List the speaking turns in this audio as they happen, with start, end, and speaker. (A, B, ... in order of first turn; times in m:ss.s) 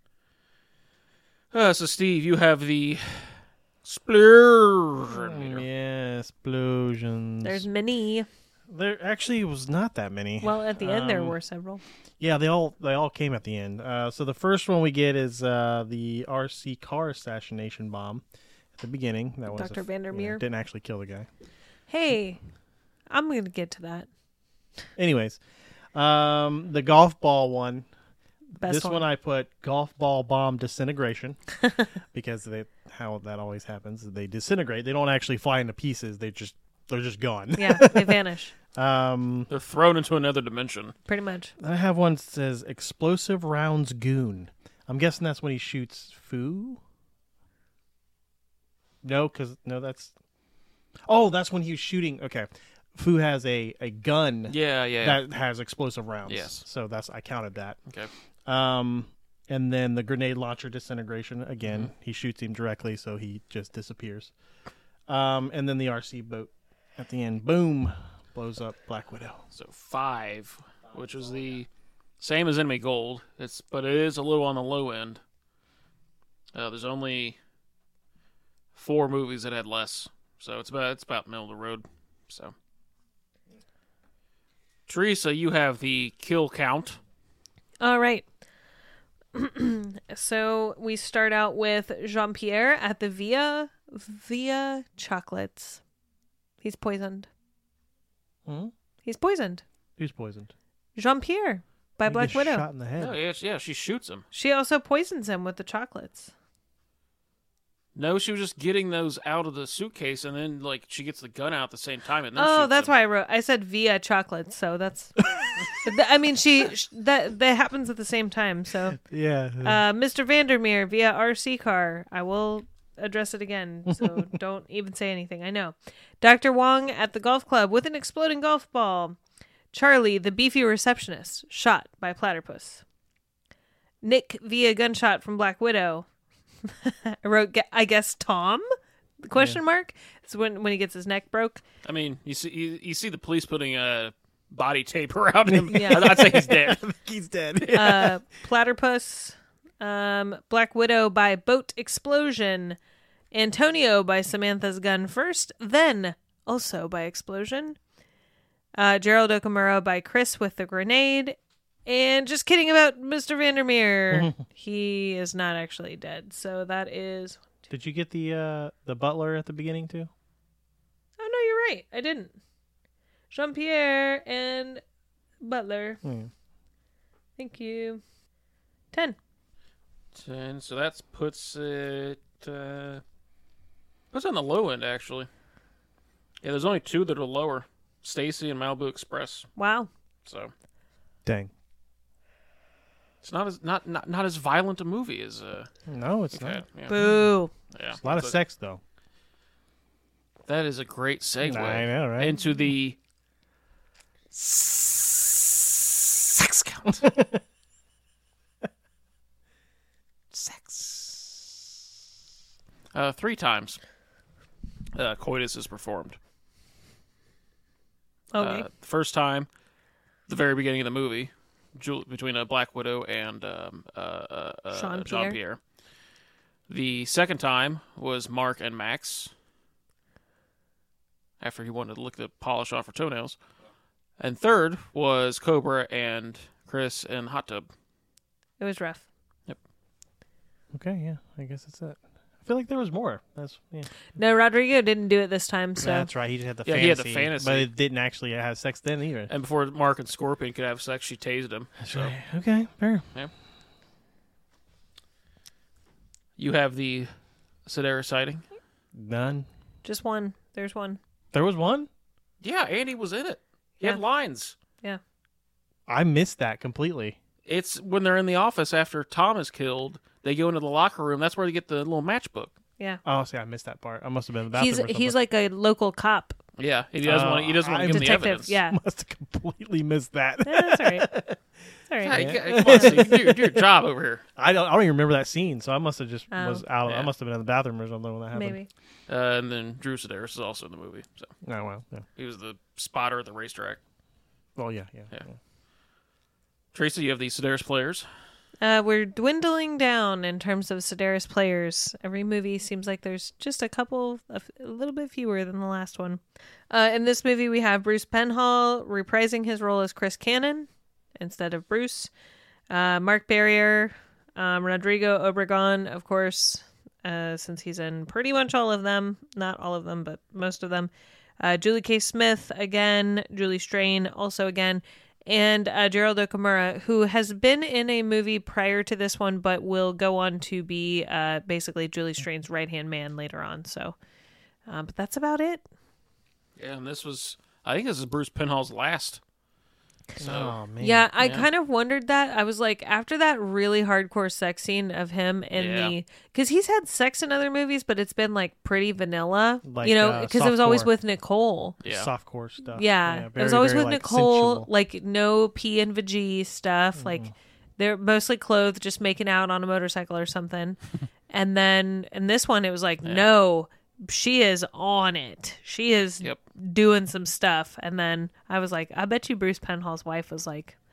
0:01.5-0:05.6 A
0:05.1-0:07.7 B
0:07.4-0:08.3 C
0:08.7-0:11.4 B
0:10.4-0:11.8 C
0:12.2-0:18.2 B
0:18.8-0:21.3 B
0:19.5-0:20.4 C
0:21.9-0:22.4 C
0:23.1-0:24.1 C
0:25.0-0:25.4 B
0:25.9-0:27.9 B
0:28.6-0:29.0 C
0:28.6-0:31.5 B
0:32.1-0:38.2 B
0:37.6-0:38.5 C
0:38.7-0:39.5 B
0:39.5-0:41.0 A
0:41.1-0:41.5 C
0:41.6-0:46.8 B
0:49.0-0:50.1 B
0:51.1-0:57.8 B
0:54.5-0:55.2 A
0:56.3-0:56.6 A
0:58.5-1:04.3 B
1:05.1-1:09.4 B
1:09.5-1:11.7 A
1:12.2-1:15.2 A
1:16.6-1:17.4 A
1:18.8-1:22.5 A
1:24.9-1:27.0 A
1:27.8-1:28.2 C
1:29.3-1:35.8 C
1:36.6-1:37.3 C
1:38.5-1:38.7 B
1:39.0-1:39.6 C
1:40.0-1:40.5 B
1:41.0-1:42.7 C
1:42.1-1:43.2 B
1:43.0-1:44.2 A
1:44.3-1:46.3 C
1:48.0-1:52.9 A
1:52.4-1:59.0 C
1:55.3-1:55.9 B
1:58.9-1:59.8 B
1:59.6-2:09.2 C
2:03.9-2:04.3 B
2:09.7-2:12.8 C
2:14.0-2:16.1 C
2:16.6-2:18.6 C
2:19.2-2:21.6 C
2:21.8-2:26.8 A
2:25.5-2:28.2 B
2:25.7-2:26.2 C
2:27.7-2:32.8 C
2:33.3-2:37.8 C
2:38.8-2:47.5 C
2:44.1-2:44.4 B
2:47.7-2:50.1 B
2:51.2-2:52.4 C
2:53.3-2:54.8 C
2:55.4-2:56.0 C
2:56.0-2:56.3 B
2:57.4-2:58.0 C
2:58.9-2:59.2 C
3:00.1-3:03.0 A
3:04.1-3:05.3 A
3:06.4-3:09.5 A
3:09.6-3:09.9 C
3:10.2-3:10.5 A
3:11.2-3:11.5 B
3:13.2-3:15.7 A
3:15.9-3:17.3 B
3:16.3-3:17.0 A
3:16.9-3:17.5 C
3:17.7-3:18.4 A
3:18.0-3:18.8 B
3:20.5-3:23.0 A
3:21.4-3:22.4 B
3:24.3-3:27.1 A
3:26.9-3:27.4 B
3:30.3-3:31.5 A
3:32.9-3:33.8 A
3:35.0-3:36.2 A
3:38.3-3:38.7 C
3:38.4-3:39.5 A
3:40.3-3:45.6 A
3:44.7-3:45.4 C
3:46.7-3:49.3 A
3:51.4-3:53.4 A
3:54.2-3:57.7 A
3:58.6-3:59.1 C
4:00.7-4:03.9 B
4:04.2-4:06.1 C
4:05.8-4:09.3 B
4:06.6-4:07.7 A
4:09.3-4:12.1 A
4:11.8-4:13.1 B
4:16.4-4:17.1 A
4:17.7-4:18.4 A
4:18.9-4:19.5 B
4:19.8-4:21.0 C
4:21.3-4:21.9 B
4:22.4-4:24.6 A
4:25.9-4:27.2 B
4:27.5-4:32.5 A
4:33.0-4:35.2 B
4:34.5-4:36.4 C
4:36.6-4:38.6 A
4:37.0-4:41.4 B
4:37.8-4:38.8 C
4:40.4-4:41.1 C
4:41.9-4:43.1 C
4:42.0-4:43.7 B
4:42.0-4:44.2 A
4:44.4-4:48.6 B
4:46.3-4:46.6 C
4:48.3-4:48.7 C
4:49.1-4:51.3 A
4:51.4-4:52.0 B
4:52.2-4:53.8 A
4:54.6-4:55.4 B
4:56.7-4:58.1 A
4:58.6-5:12.1 C
5:12.7-5:34.0 C
5:34.7-5:35.6 C
5:36.6-5:39.2 A
5:40.2-5:41.1 B
5:40.2-5:40.6 A
5:40.8-5:51.8 C
5:41.2-5:41.5 A
5:45.6-5:46.0 A
5:49.6-5:50.9 B
5:51.8-5:52.1 A
5:51.9-5:54.7 B
5:52.6-6:10.8 C
5:57.0-5:57.3 B